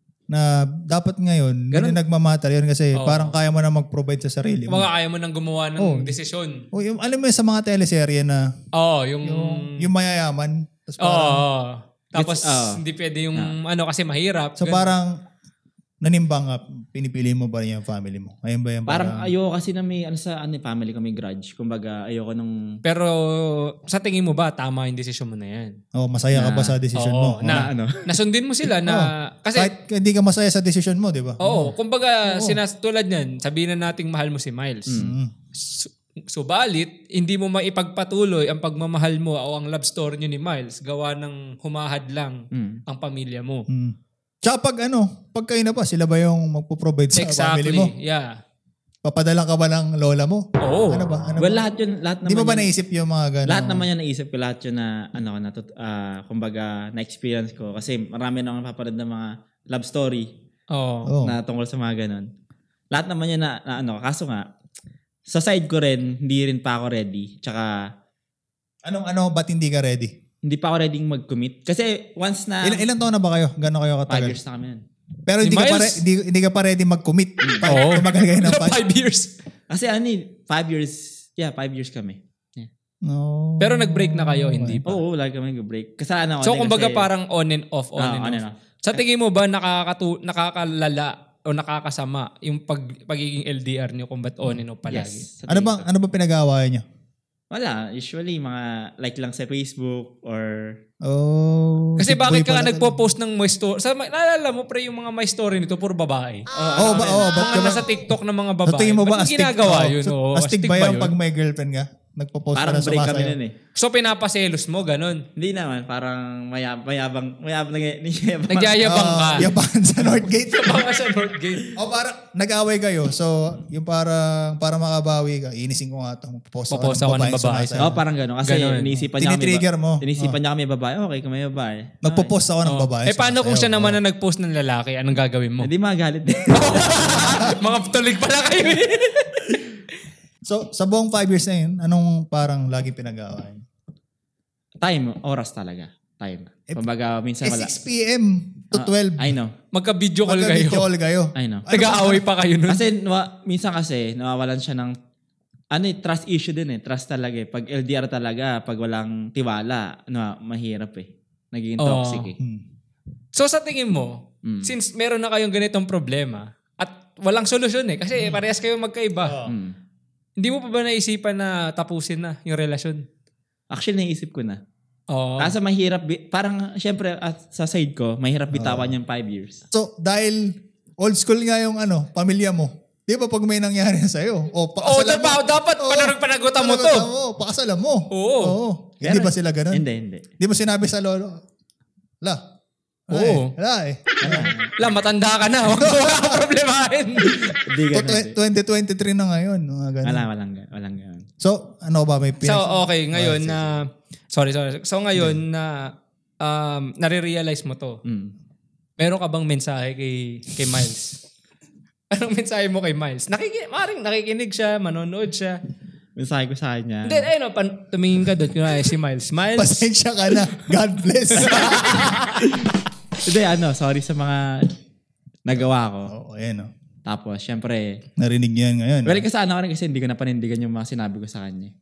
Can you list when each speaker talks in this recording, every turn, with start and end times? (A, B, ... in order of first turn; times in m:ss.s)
0:00.3-0:04.9 A
0:01.7-0:02.0 B
0:02.9-0:03.4 C
0:04.7-0:06.6 C
0:05.8-0:06.2 A
0:06.7-0:08.4 A
0:08.8-0:09.9 C
0:09.2-0:11.5 A
0:11.0-0:14.9 C
0:12.2-0:12.8 B
0:14.6-0:15.1 A
0:16.0-0:19.3 A
0:18.9-0:22.6 B
0:22.8-0:25.8 C
0:26.0-0:27.7 A
0:26.3-0:26.8 B
0:27.0-0:29.7 C
0:27.5-0:28.0 B
0:28.8-0:31.7 A
0:31.4-0:35.0 C
0:32.3-0:32.6 A
0:34.9-0:35.1 B
0:34.9-0:35.3 A
0:35.6-0:43.7 C
0:42.5-0:42.8 B
0:43.7-0:47.9 A
0:47.2-0:48.3 C
0:49.0-0:51.6 A
0:50.6-0:51.1 C
0:51.4-0:52.7 B
0:52.2-0:53.9 A
0:53.5-1:00.3 B
1:00.7-1:01.1 C
1:01.1-1:01.4 A
1:01.2-1:02.3 B
1:02.9-1:04.4 B
1:05.3-1:07.7 B
1:08.9-1:10.1 A
1:10.4-1:12.8 B
1:12.6-1:14.4 A
1:14.1-1:14.8 B
1:15.3-1:18.8 A
1:15.4-1:16.0 C
1:17.4-1:17.7 B
1:17.7-1:19.3 C
1:19.7-1:22.7 B
1:23.1-1:25.0 A
1:23.6-1:24.9 C
1:24.9-1:27.1 B
1:26.4-1:35.2 C
1:28.0-1:29.0 B
1:34.9-1:35.9 B
1:35.5-1:36.8 A
1:37.5-1:40.7 B
1:41.0-1:43.0 A
1:42.0-1:51.2 C
1:46.5-1:47.8 B
1:46.8-1:47.9 A
1:48.6-1:53.4 A
1:52.6-1:53.5 B
1:53.8-1:55.2 C
1:55.4-1:59.5 B
1:58.5-1:59.5 C
1:58.8-2:00.9 A
2:00.5-2:01.7 C
2:01.8-2:08.0 A
2:06.7-2:07.9 C
2:07.8-2:12.3 B
2:08.4-2:09.0 C
2:09.2-2:10.4 A
2:12.0-2:14.0 A
2:12.6-2:15.7 C
2:15.6-2:17.2 B
2:16.5-2:19.6 C
2:17.3-2:17.6 A
2:20.4-2:23.6 A
2:24.8-2:27.7 B
2:27.4-2:29.3 A
2:28.7-2:29.5 B
2:29.7-2:30.9 C
2:30.3-2:32.3 A
2:31.4-2:31.7 B
2:31.7-2:32.8 C
2:32.7-2:34.9 B
2:35.7-2:42.4 B
2:41.8-2:42.3 C
2:43.4-2:49.5 C
2:44.4-2:44.7 B
2:49.2-2:49.5 A
2:49.5-2:49.7 B
2:50.4-2:53.0 C
2:53.7-2:54.6 B
2:55.1-2:55.6 C
2:55.4-2:59.6 B
2:58.5-2:58.9 A
2:59.7-3:09.8 A
3:04.8-3:07.1 C
3:08.1-3:08.6 C
3:09.0-3:10.3 B
3:10.4-3:11.4 A
3:13.1-3:14.5 A
3:13.1-3:13.5 C
3:14.2-3:14.8 B
3:14.8-3:17.6 C
3:17.5-3:18.4 B
3:17.9-3:20.3 A
3:20.0-3:21.2 B
3:21.4-3:23.8 A
3:22.4-3:28.0 C
3:28.0-3:28.3 B
3:29.0-3:31.2 C
3:32.1-3:35.6 C
3:36.2-3:37.3 B
3:37.0-3:39.8 C
3:39.6-3:42.2 A
3:41.4-3:41.7 B
3:41.4-3:42.5 C
3:43.2-3:44.7 B
3:45.4-3:46.1 B
3:46.1-3:46.7 A
3:47.1-3:48.0 B
3:48.2-3:49.2 A
3:49.1-3:51.7 B